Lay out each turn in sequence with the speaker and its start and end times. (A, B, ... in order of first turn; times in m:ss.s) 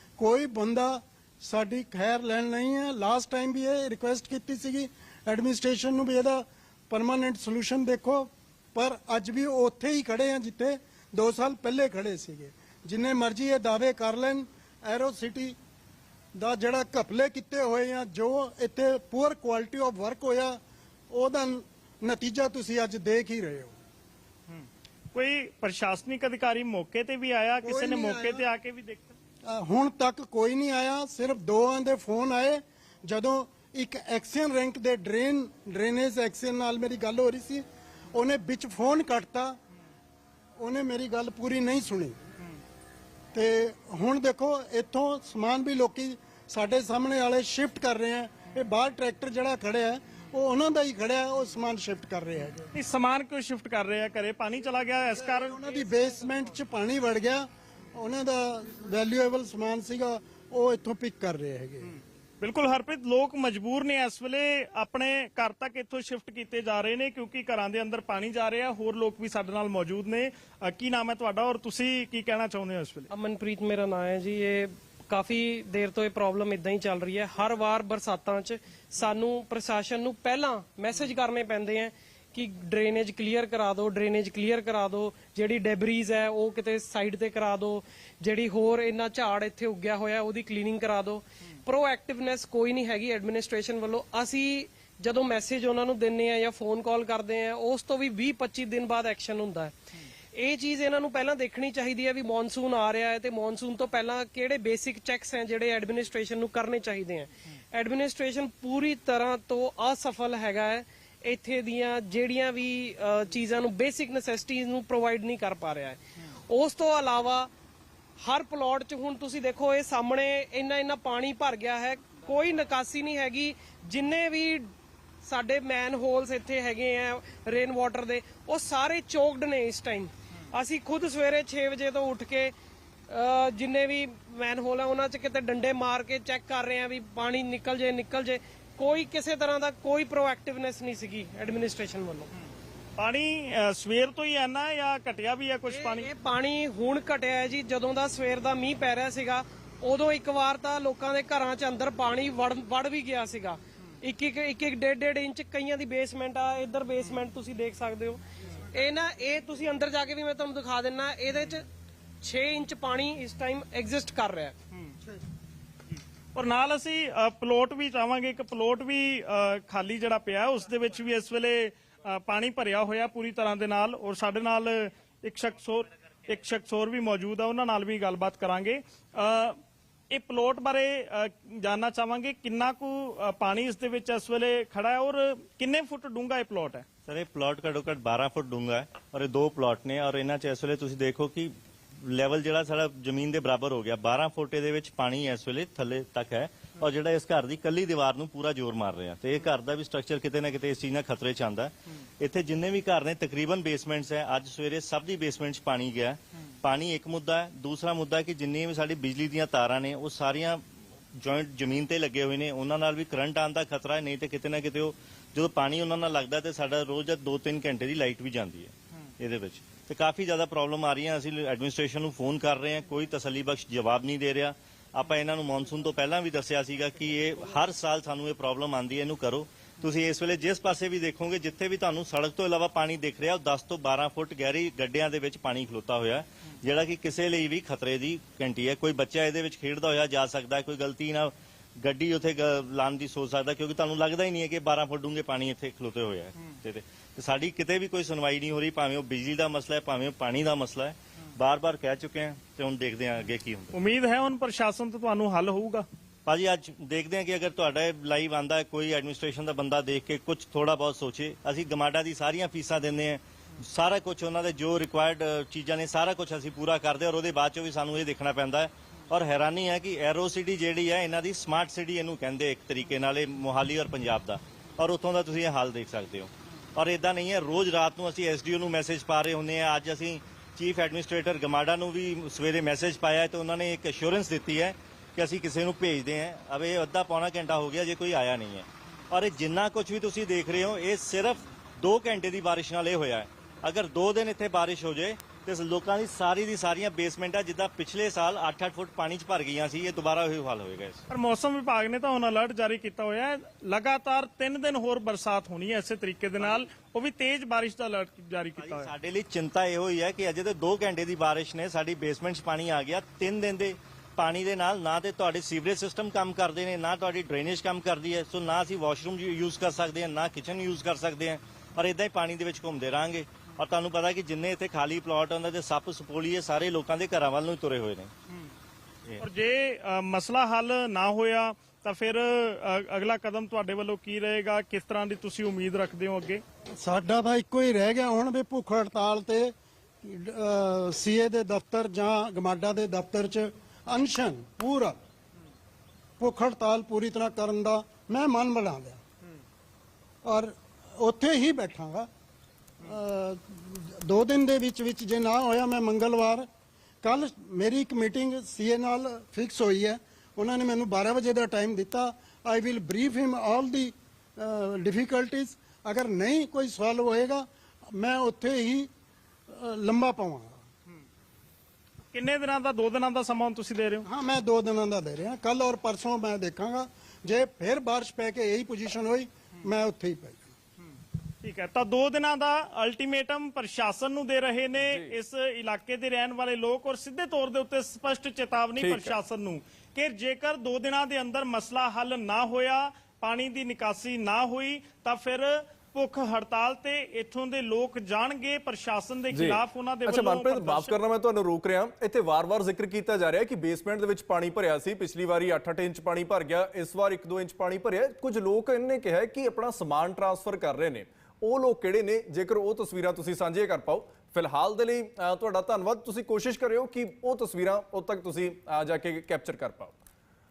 0:00.2-0:15.6 A
0:16.4-0:20.6 A
0:21.1-0:23.8 A
0:25.1-0:29.1 B
0:27.6-0:28.4 A
0:29.4-0:39.6 A
0:40.6-0:42.2 A
0:43.3-0:52.7 A
0:52.7-0:55.6 B
0:55.2-1:02.0 A
1:02.4-1:13.1 B
1:13.1-1:39.8 C
1:40.3-1:57.5 C
1:58.2-2:04.7 C
2:05.2-2:12.5 C
2:13.1-2:22.3 C
2:23.0-2:26.1 B
2:25.7-2:41.7 C
2:42.2-2:44.5 C
2:46.3-2:59.6 B
3:00.1-3:06.8 B
3:07.0-3:30.6 D
3:31.1-4:13.7 D
4:13.7-4:15.8 B
4:16.2-5:01.0 D
5:01.1-5:08.9 B
5:08.6-5:28.1 D
5:29.2-5:36.4 B
5:36.8-5:45.0 A
5:46.2-5:49.0 A
5:50.2-5:52.1 A
5:52.8-5:56.5 A
5:57.0-6:08.9 A
6:09.5-6:10.6 A
6:12.1-6:14.0 B
6:14.0-6:20.5 A
6:21.4-6:41.0 B
6:24.8-6:25.1 E
6:28.8-6:29.2 E
6:39.3-7:00.0 E